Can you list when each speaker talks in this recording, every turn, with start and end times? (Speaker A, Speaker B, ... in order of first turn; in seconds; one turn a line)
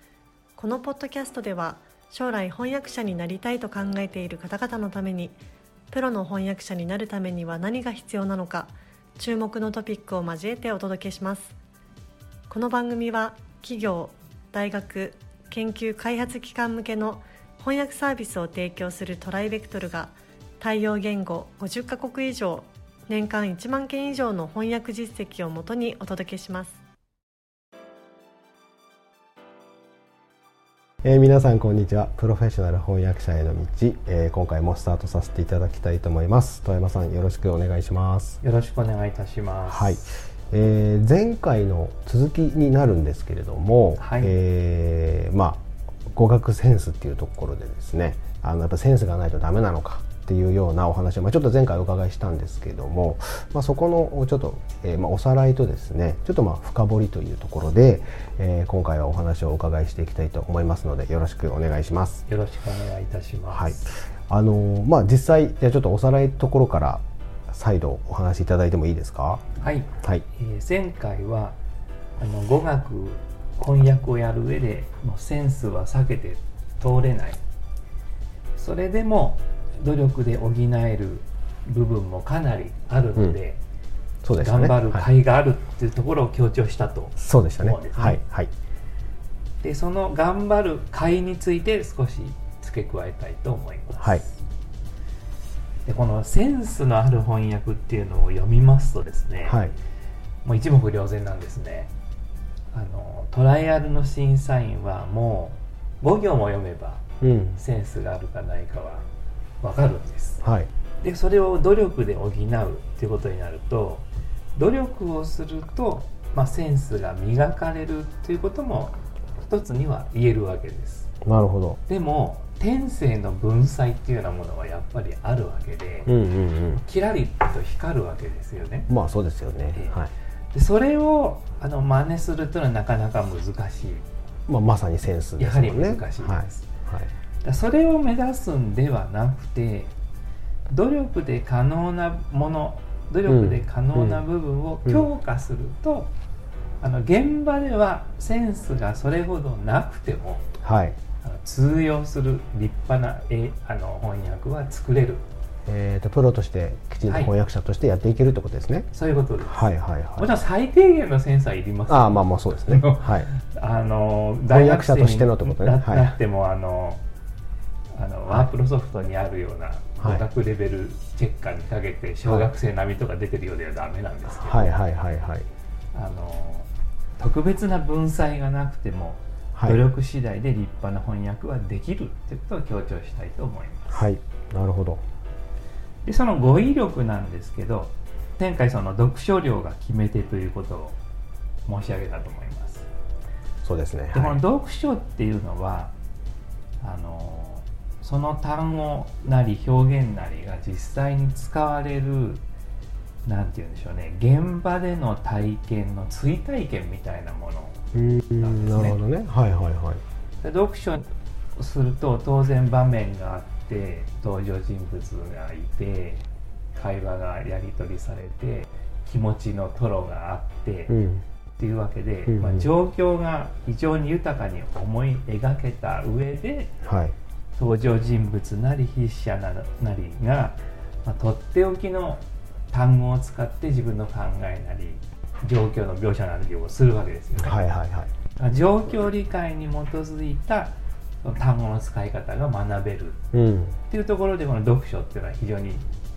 Speaker A: 0.6-11.6
Speaker A: 12.5-26.8
Speaker B: 31.0-38.4
Speaker C: 38.4-40.1
Speaker B: 39.7-62.2
Speaker C: 44.0-44.4
Speaker C: 62.3-63.9
Speaker B: 63.5-69.4
Speaker C: 69.6-71.6
Speaker C: 72.2-77.4
Speaker C: 78.6-83.6
Speaker B: 84.2-85.1
Speaker C: 84.4-88.2
Speaker B: 87.2-88.5
Speaker C: 89.6-94.4
Speaker B: 94.0-94.2
Speaker C: 95.9-99.6
Speaker B: 99.4-99.8
Speaker C: 100.4-101.9
Speaker C: 102.7-107.0
Speaker B: 107.2-107.6
Speaker C: 107.6-109.1
Speaker C: 109.6-110.4
Speaker B: 110.4-110.7
Speaker C: 111.0-121.1
Speaker B: 121.2-121.8
Speaker C: 121.9-126.1
Speaker B: 126.1-126.8
Speaker C: 126.8-128.9
Speaker B: 128.9-130.1
Speaker C: 130.5-134.1
Speaker B: 134.5-137.1
Speaker C: 135.4-136.7
Speaker C: 137.4-139.9
Speaker C: 140.7-146.1
Speaker B: 143.3-144.2
Speaker C: 146.8-150.5
Speaker B: 150.6-151.0
Speaker C: 151.2-155.3
Speaker B: 155.7-158.9
Speaker C: 157.1-157.3
Speaker C: 158.9-167.0
Speaker B: 159.4-160.3
Speaker B: 161.9-163.3
Speaker B: 164.5-166.2
Speaker C: 167.9-174.8
Speaker B: 170.0-170.2
Speaker B: 174.3-175.5
Speaker C: 175.9-184.1
Speaker B: 179.5-179.8
Speaker B: 183.9-185.0
Speaker C: 186.0-191.0
Speaker C: 191.7-192.9
Speaker B: 193.6-194.4
Speaker C: 194.1-195.9
Speaker C: 196.8-202.4
Speaker C: 203.2-207.8
Speaker B: 207.9-210.0
Speaker C: 208.4-209.0
Speaker C: 210.4-220.9
Speaker B: 220.9-221.2
Speaker C: 221.6-226.8
Speaker B: 222.3-222.7
Speaker B: 226.8-227.1
Speaker C: 227.6-237.6
Speaker B: 237.4-238.1
Speaker C: 238.4-243.2
Speaker B: 243.3-243.8
Speaker C: 243.9-245.8